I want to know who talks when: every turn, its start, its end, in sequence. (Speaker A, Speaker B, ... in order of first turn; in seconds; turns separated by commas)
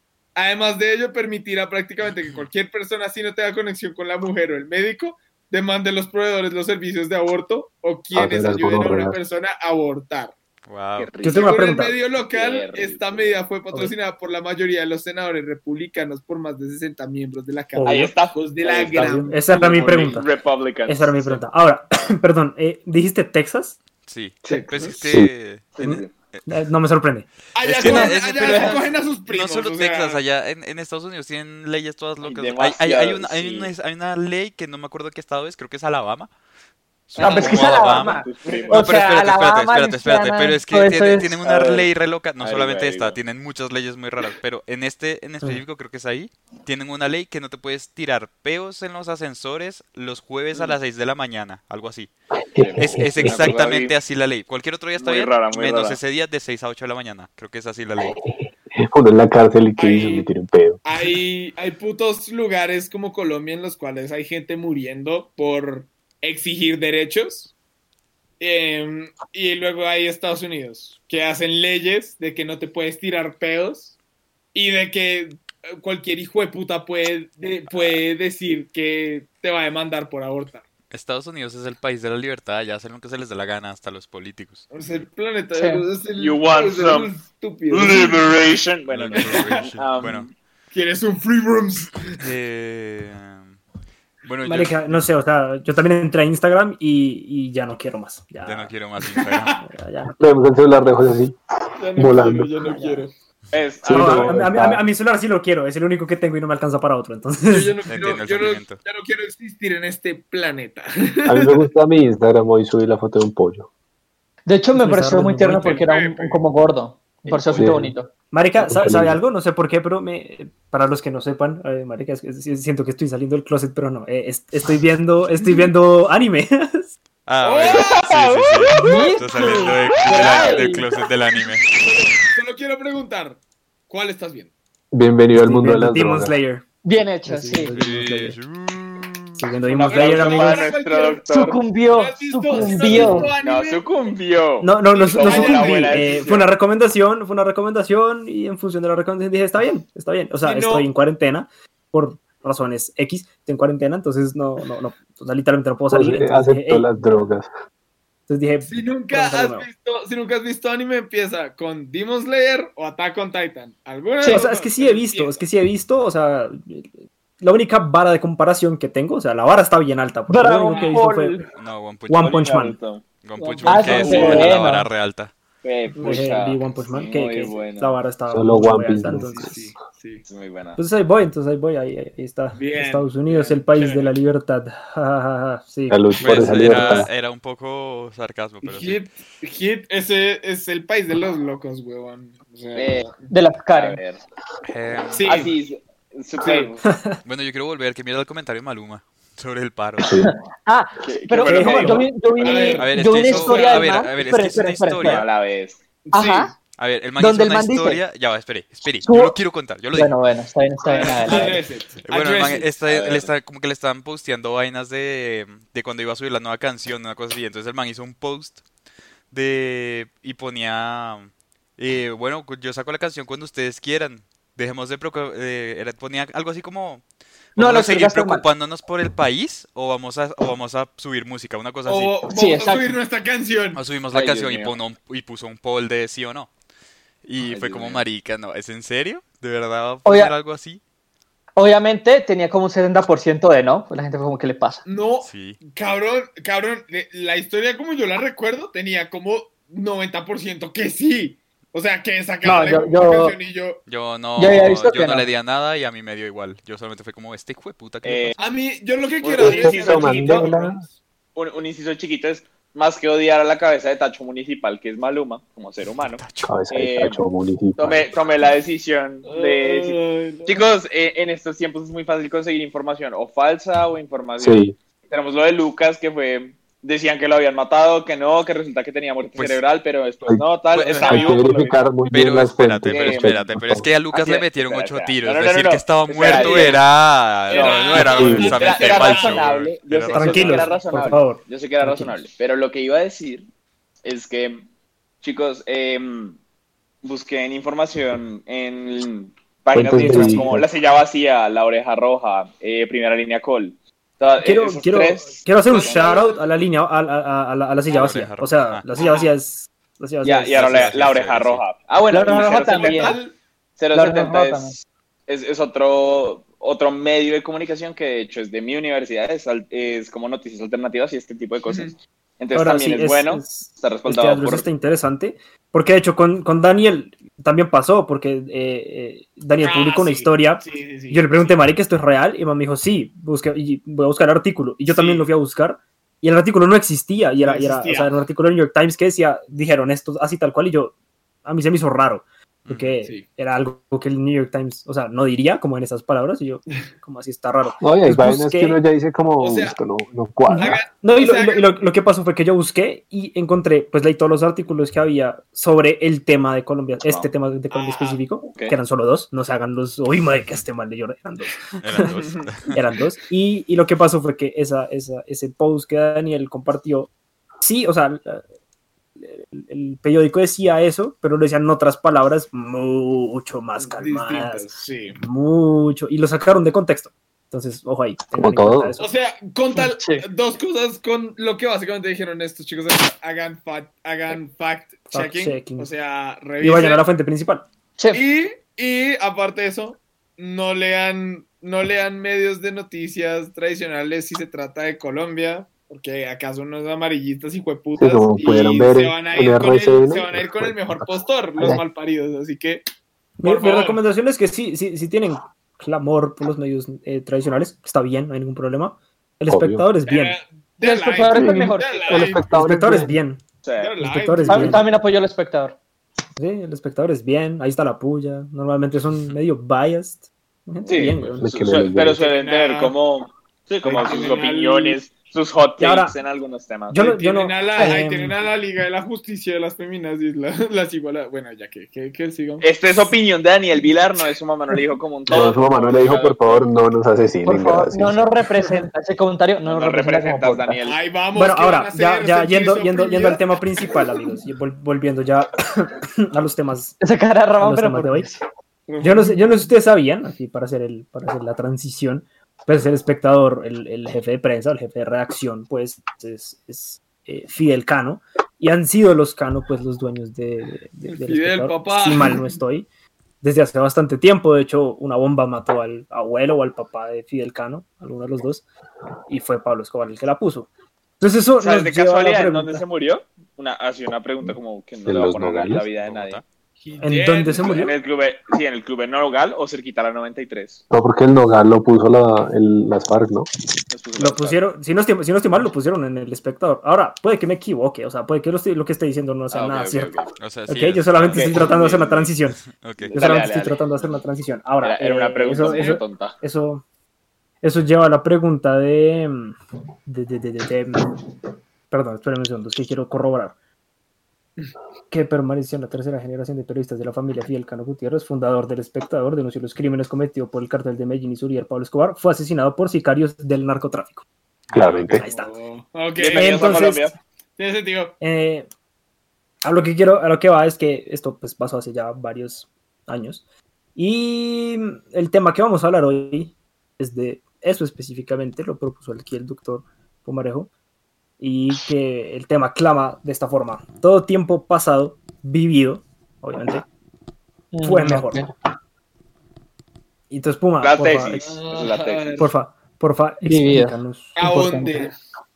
Speaker A: 0.4-10.3, Speaker B: 8.1-9.2, Speaker C: 10.7-11.2, Speaker D: 11.0-11.6, Speaker E: 11.2-11.9, Speaker A: 11.3-20.2, Speaker D: 12.2-13.4, Speaker E: 17.7-18.1, Speaker D: 17.9-21.4, Speaker E: 18.8-20.3, Speaker E: 20.9-23.8, Speaker C: 24.1-25.8, Speaker A: 24.5-25.0, Speaker B: 25.0-25.3, Speaker D: 25.7-26.1, Speaker E: 25.8-27.3, Speaker A: 27.6-30.2, Speaker C: 27.6-36.3, Speaker D: 27.8-28.9, Speaker D: 32.2-33.7, Speaker C: 37.1-52.1, Speaker D: 37.2-38.9, Speaker F: 37.2-41.4, Speaker D: 41.4-43.2, Speaker B: 52.5-53.6, Speaker D: 52.6-53.9, Speaker C: 52.8-58.2, Speaker D: 55.0-56.0, Speaker B: 58.0-60.8, Speaker A: 59.8-60.3, Speaker A: 60.9-67.5, Speaker A: 68.4-73.9, Speaker A: 74.5-80.7, Speaker C: 80.9-84.7, Speaker A: 84.7-88.4, Speaker F: 85.6-85.9, Speaker D: 86.2-87.1, Speaker D: 87.7-90.3, Speaker C: 88.9-90.3, Speaker A: 89.1-89.7, Speaker A: 90.7-92.3, Speaker C: 92.2-93.6, Speaker C: 94.2-95.0, Speaker E: 94.5-98.8, Speaker C: 98.5-99.6, Speaker A: 99.2-99.6, Speaker E: 99.7-100.5, Speaker B: 100.2-102.5, Speaker A: 101.8-103.1, Speaker E: 102.6-103.1, Speaker D: 103.5-104.4, Speaker B: 103.8-104.8, Speaker E: 103.9-107.9, Speaker A: 107.5-111.7, Speaker C: 107.9-108.8, Speaker B: 111.3-113.7, Speaker F: 114.5-118.1, Speaker E: 114.7-115.9, Speaker A: 115.8-116.4, Speaker D: 117.3-117.7, Speaker B: 117.6-117.9, Speaker E: 118.3-127.0, Speaker B: 118.6-119.2, Speaker A: 125.4-125.7, Speaker C: 127.3-131.7, Speaker A: 127.4-130.7, Speaker D: 127.6-128.8, Speaker F: 128.8-130.8, Speaker D: 129.9-130.6, Speaker A: 131.3-134.5, Speaker B: 134.9-136.4, Speaker E: 135.3-136.7, Speaker F: 136.8-137.7, Speaker E: 137.2-138.4, Speaker C: 137.7-139.4, Speaker E: 139.4-140.7, Speaker D: 139.7-141.6, Speaker A: 139.8-141.2, Speaker F: 141.3-143.3, Speaker A: 141.8-144.1, Speaker E: 142.6-143.0, Speaker D: 142.9-146.5, Speaker E: 144.6-156.9, Speaker A: 144.9-146.2, Speaker A: 150.4-150.9, Speaker B: 155.9-157.5, Speaker E: 158.3-159.7, Speaker A: 158.7-165.4, Speaker E: 164.2-166.9, Speaker E: 167.4-171.5, Speaker F: 170.3-171.5, Speaker C: 171.5-172.4, Speaker E: 172.1-172.8, Speaker D: 172.2-174.6, Speaker C: 173.2-175.3, Speaker A: 173.6-174.5, Speaker F: 173.7-174.9, Speaker D: 175.6-178.0, Speaker A: 175.9-176.3, Speaker E: 176.0-179.8, Speaker B: 178.3-179.5, Speaker A: 179.2-180.2, Speaker D: 180.3-180.8, Speaker E: 180.8-187.0, Speaker A: 182.6-184.2, Speaker B: 185.9-187.1, Speaker C: 186.2-189.0, Speaker A: 188.6-193.3, Speaker D: 192.7-193.1, Speaker F: 193.3-194.0, Speaker D: 193.7-194.2, Speaker C: 194.7-195.5, Speaker A: 195.1-195.5, Speaker D: 195.2-196.8, Speaker A: 196.4-196.8, Speaker E: 196.8-197.2, Speaker C: 197.2-200.2, Speaker B: 200.0-200.3, Speaker F: 200.2-205.3, Speaker D: 201.0-202.8, Speaker E: 201.4-202.1, Speaker A: 202.4-204.0, Speaker C: 202.8-205.3, Speaker D: 205.0-205.8, Speaker A: 206.0-206.6, Speaker F: 206.1-206.5, Speaker C: 206.8-210.1, Speaker F: 207.2-208.0, Speaker F: 209.0-209.4, Speaker F: 209.9-211.6, Speaker A: 210.8-212.7, Speaker C: 212.1-218.6, Speaker D: 212.8-213.3, Speaker C: 219.3-227.0, Speaker C: 227.6-232.2, Speaker F: 227.6-228.5, Speaker A: 231.9-233.8, Speaker F: 232.3-232.9, Speaker C: 233.8-236.5, Speaker D: 234.1-234.8, Speaker C: 237.2-240.8, Speaker D: 237.4-238.1, Speaker F: 240.1-240.3, Speaker F: 241.6-244.8, Speaker A: 244.8-253.8, Speaker C: 245.2-245.6, Speaker F: 252.4-253.3, Speaker C: 253.9-258.4, Speaker F: 254.4-255.3, Speaker D: 258.0-258.4, Speaker A: 258.4-260.9, Speaker D: 259.2-260.6, Speaker B: 259.4-260.8, Speaker D: 261.4-267.2, Speaker C: 266.2-266.5, Speaker B: 266.5-268.1, Speaker D: 267.8-281.9, Speaker A: 269.3-270.6, Speaker B: 274.4-274.8, Speaker C: 279.4-279.6, Speaker C: 280.7-281.2, Speaker A: 280.9-281.7, Speaker B: 281.1-283.9, Speaker C: 282.1-290.7, Speaker D: 282.9-283.4, Speaker D: 284.1-286.8, Speaker A: 286.2-286.8, Speaker A: 287.5-289.6, Speaker D: 287.5-293.5, Speaker B: 288.0-288.6, Speaker E: 290.1-292.2, Speaker D: 294.0-294.6, Speaker D: 295.2-296.4, Speaker D: 297.0-306.2, Speaker B: 299.7-300.7, Speaker E: 299.8-300.6, Speaker E: 304.4-310.7, Speaker A: 305.7-306.5, Speaker C: 307.9-308.8, Speaker A: 308.9-309.3, Speaker D: 310.2-313.2, Speaker C: 310.5-311.7, Speaker F: 312.1-313.2, Speaker A: 312.2-313.4, Speaker D: 313.8-314.7, Speaker F: 313.9-314.8, Speaker D: 315.3-324.7, Speaker A: 321.7-321.9, Speaker E: 322.5-340.9, Speaker A: 329.6-331.6, Speaker A: 334.9-335.3, Speaker A: 337.4-338.2, Speaker E: 341.4-348.8, Speaker C: 342.6-343.0, Speaker A: 343.0-343.3, Speaker B: 347.8-350.8, Speaker A: 349.4-349.8, Speaker E: 350.5-362.2, Speaker A: 350.5-351.9, Speaker A: 357.7-358.2, Speaker C: 361.8-362.8, Speaker E: 362.7-368.4, Speaker E: 369.2-379.1, Speaker A: 373.8-375.2, Speaker B: 378.4-378.9, Speaker A: 379.0-387.0, Speaker F: 379.8-380.2, Speaker E: 385.1-385.9, Speaker E: 386.6-387.6, Speaker A: 388.1-402.9, Speaker B: 398.0-401.8, Speaker E: 403.4-410.4, Speaker A: 403.4-404.0, Speaker B: 409.5-409.9, Speaker A: 410.1-412.5, Speaker F: 410.8-412.4, Speaker B: 411.4-413.2, Speaker E: 412.5-413.4, Speaker D: 413.6-413.9, Speaker A: 413.8-414.9, Speaker E: 414.0-414.8, Speaker F: 414.5-415.8, Speaker E: 416.4-421.6, Speaker D: 420.9-427.1, Speaker B: 421.4-422.2, Speaker A: 422.1-423.0, Speaker A: 423.8-425.0, Speaker E: 425.8-426.2, Speaker E: 426.9-428.4, Speaker A: 427.0-432.8, Speaker D: 432.6-436.7, Speaker B: 435.3-438.2, Speaker F: 437.5-440.8, Speaker D: 439.6-441.0, Speaker A: 440.9-443.5, Speaker E: 441.3-447.0, Speaker F: 447.0-448.4, Speaker E: 447.6-448.3, Speaker A: 448.9-449.6, Speaker E: 449.0-462.9, Speaker A: 461.1-462.5, Speaker E: 463.4-468.6, Speaker E: 469.3-470.7, Speaker E: 471.2-472.8, Speaker D: 471.6-476.4, Speaker B: 475.1-475.9, Speaker C: 476.0-476.4, Speaker A: 476.8-477.8, Speaker E: 477.0-477.9, Speaker D: 477.7-480.8, Speaker B: 480.9-483.5, Speaker D: 483.9-484.6, Speaker E: 484.2-490.2, Speaker D: 489.5-490.3, Speaker C: 490.4-491.7, Speaker E: 490.7-496.8, Speaker D: 491.3-492.3, Speaker C: 492.6-493.4, Speaker D: 493.0-493.9, Speaker D: 494.8-496.4, Speaker E: 497.6-501.2, Speaker E: 501.9-503.6, Speaker E: 505.1-514.2, Speaker C: 514.7-515.3, Speaker B: 514.7-515.2, Speaker E: 515.2-515.5, Speaker A: 515.2-516.9, Speaker D: 516.2-517.1, Speaker E: 516.3-517.1, Speaker A: 517.6-518.2, Speaker E: 518.2-518.7, Speaker E: 519.6-523.4, Speaker E: 524.0-530.7, Speaker E: 531.4-536.9, Speaker F: 537.7-538.5, Speaker E: 537.8-538.5, Speaker E: 540.3-541.6, Speaker D: 540.8-542.5, Speaker A: 541.4-542.5, Speaker E: 542.4-545.1, Speaker F: 543.4-544.0, Speaker A: 544.4-545.1